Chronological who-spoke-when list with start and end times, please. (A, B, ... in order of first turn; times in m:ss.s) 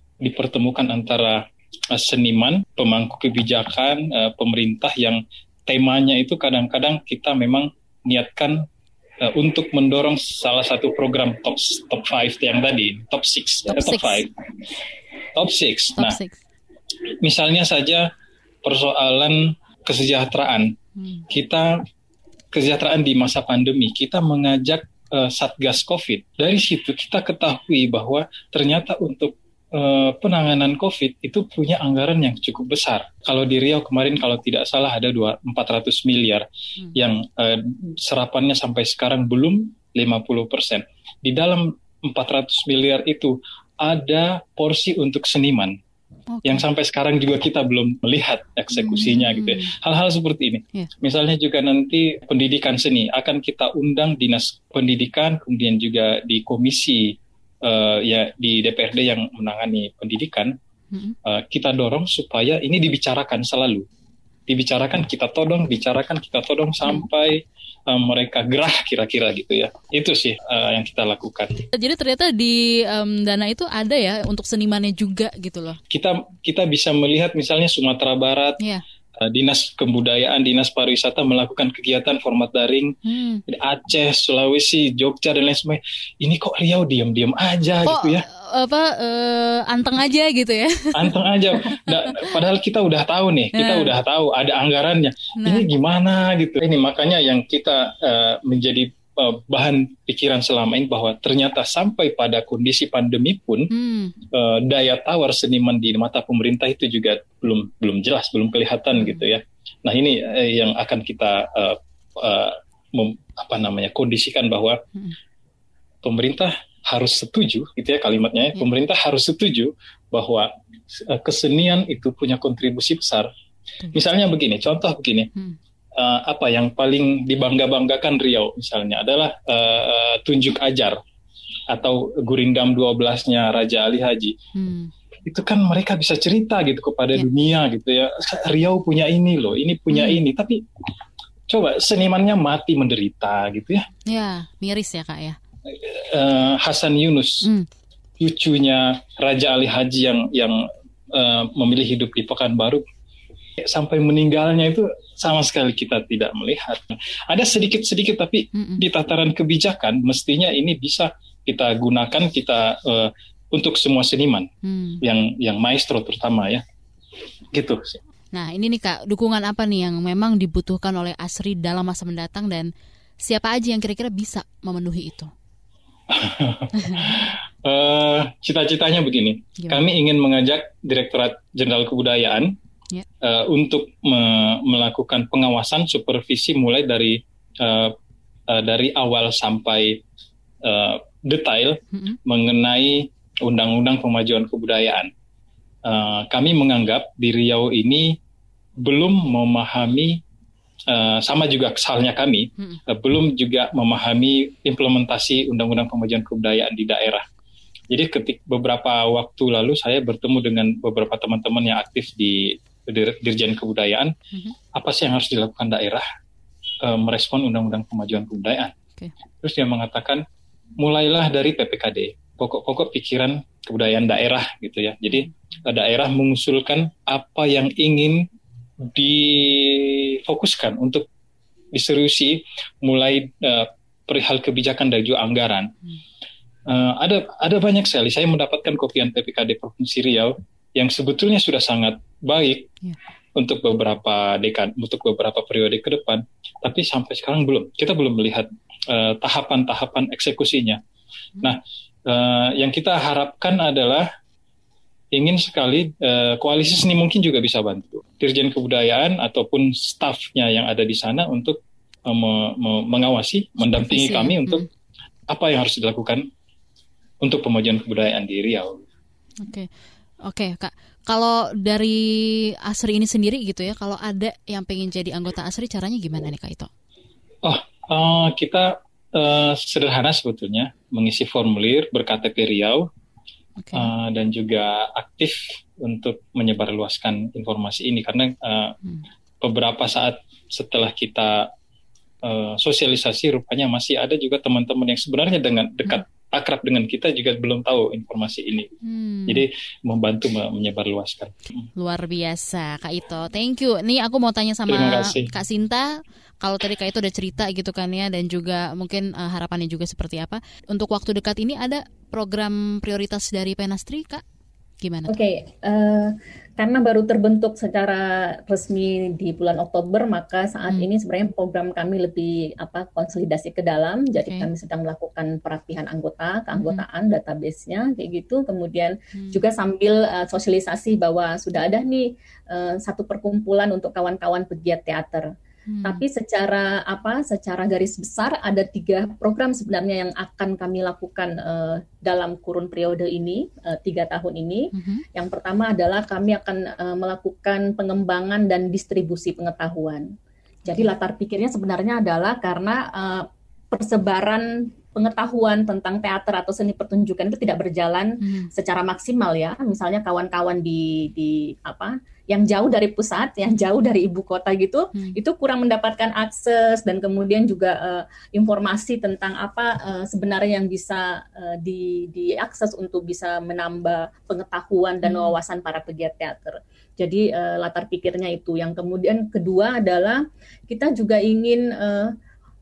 0:00.2-0:08.6 A
0:09.2-0:14.3 A
0:13.7-0:14.3 B
0:15.3-0:16.2 A
0:16.0-0:16.4 B
0:17.1-0:18.1 A
0:18.6-0:20.8 A
0:21.0-0:21.3 B
0:21.3-0:21.8 A
0:22.5-0:45.8 A
0:46.3-0:46.6 B
0:46.4-1:00.5 A
0:48.8-0:49.7 B
1:01.2-1:03.8 A
1:04.5-1:11.7 A
1:11.7-1:15.8 B
1:15.9-1:18.6 A
1:19.2-1:23.0 A
1:23.0-1:23.4 B
1:23.5-1:28.2 A
1:27.8-1:32.2 B
1:30.9-1:43.7 A
1:33.5-1:33.9 B
1:35.4-1:35.6 B
1:43.7-1:44.2 B
1:44.3-1:54.8 A
1:48.9-1:49.2 B
1:56.0-2:03.3 A
2:03.9-2:05.3 A
2:05.9-2:11.0 A
2:11.7-2:14.4 A
2:14.5-2:14.9 B
2:15.2-2:20.6 A
2:19.9-2:20.2 B
2:21.5-2:23.9 A
2:24.0-2:25.4 B
2:25.7-2:27.5 A
2:28.2-2:32.8 A
2:33.6-2:44.5 A
2:38.5-2:38.8 B
2:44.6-2:45.0 B
2:45.0-2:46.6 A
2:47.5-2:48.0 A
2:48.3-2:52.7 B
2:53.2-2:55.3 B
2:56.1-3:02.6 A
2:56.8-2:57.1 B
3:03.2-3:07.9 A
3:08.5-3:10.0 A
3:10.6-3:15.1 A
3:11.9-3:12.2 B
3:15.8-3:18.2 A
3:18.8-3:20.2 A
3:20.9-3:27.2 A
3:27.9-3:34.1 A
3:34.7-3:36.0 A
3:36.8-3:38.7 A
3:39.4-3:40.2 A
3:40.8-3:48.2 A
3:48.8-3:51.0 A
3:51.7-3:55.7 A
3:56.7-4:02.7 A
4:03.4-4:10.8 A
4:11.4-4:14.1 A
4:15.1-4:24.6 A
4:23.8-4:24.7 B
4:25.3-4:26.3 A
4:27.2-4:28.8 A
4:29.4-4:29.7 B
4:30.2-4:36.7 B
4:37.4-4:42.9 A
4:43.6-4:43.9 B
4:43.7-4:48.8 A
4:49.4-4:51.5 A
4:52.2-4:58.7 A
4:58.8-4:59.4 B
4:59.3-5:01.4 A
5:01.8-5:14.2 B
5:04.7-5:05.3 A
5:14.8-5:15.1 B
5:15.1-5:35.3 C
5:26.6-5:26.8 B
5:35.7-5:36.0 B
5:35.8-5:50.1 C
5:44.7-5:45.0 B
5:50.7-6:22.1 C
5:58.2-5:58.5 B
6:15.0-6:15.3 B